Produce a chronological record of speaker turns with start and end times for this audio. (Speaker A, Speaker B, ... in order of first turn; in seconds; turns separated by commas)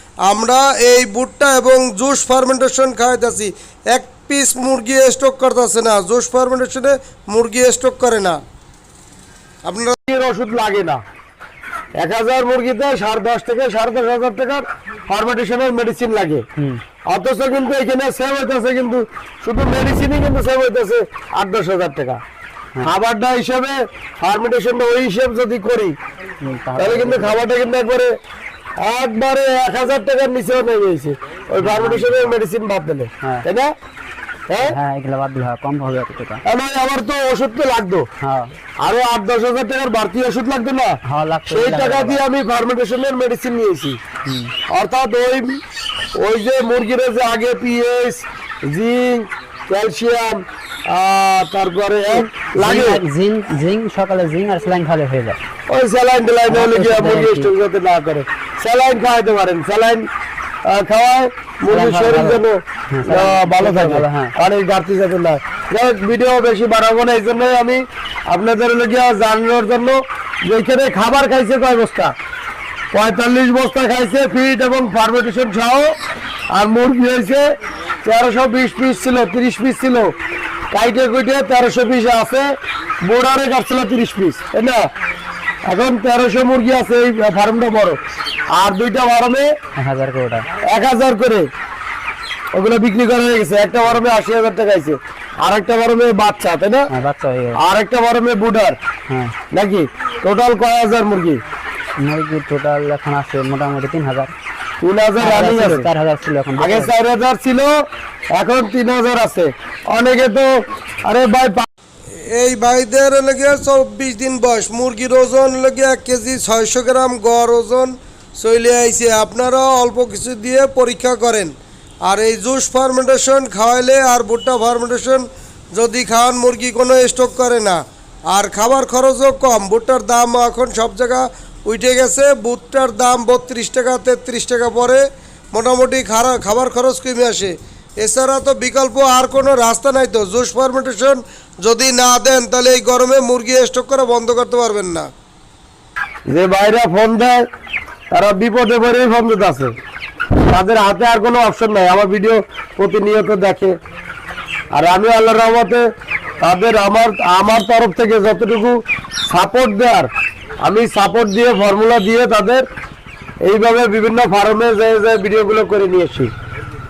Speaker A: 0.3-8.4, Speaker A: 9.6-10.0, Speaker B: 10.1-11.0, Speaker B: 12.0-16.4, Speaker B: 17.1-22.2, Speaker B: 22.8-25.9, Speaker C: 26.4-27.4, Speaker B: 26.8-28.1, Speaker B: 28.8-33.7, Speaker C: 31.6-32.3, Speaker B: 34.5-34.8, Speaker C: 34.6-36.4, Speaker B: 36.4-38.1, Speaker C: 38.2-38.5, Speaker B: 38.8-44.0, Speaker C: 41.0-42.2, Speaker C: 44.3-44.5, Speaker B: 44.7-45.6, Speaker B: 46.2-53.0, Speaker C: 52.4-55.4, Speaker B: 55.7-60.1, Speaker C: 56.5-57.5, Speaker B: 60.6-72.1, Speaker C: 61.7-64.3, Speaker B: 72.9-75.9, Speaker B: 76.5-77.4, Speaker B: 78.0-80.1, Speaker B: 80.7-82.5, Speaker B: 83.0-84.9, Speaker B: 85.7-88.0, Speaker B: 88.5-89.5, Speaker C: 89.8-90.5, Speaker B: 90.6-91.5, Speaker B: 92.5-96.9, Speaker C: 96.9-97.6, Speaker B: 97.5-98.8, Speaker C: 99.1-99.3, Speaker B: 99.5-101.4, Speaker C: 102.0-104.3, Speaker B: 104.8-105.9, Speaker C: 105.2-106.9, Speaker B: 106.6-107.7, Speaker B: 108.3-110.5, Speaker B: 111.0-111.7, Speaker A: 112.2-121.5, Speaker A: 122.1-127.8, Speaker A: 128.3-145.1, Speaker B: 146.3-147.4, Speaker B: 148.1-149.7, Speaker B: 150.5-153.8, Speaker B: 154.7-155.8, Speaker B: 156.4-160.1, Speaker B: 160.6-162.6, Speaker B: 163.4-166.3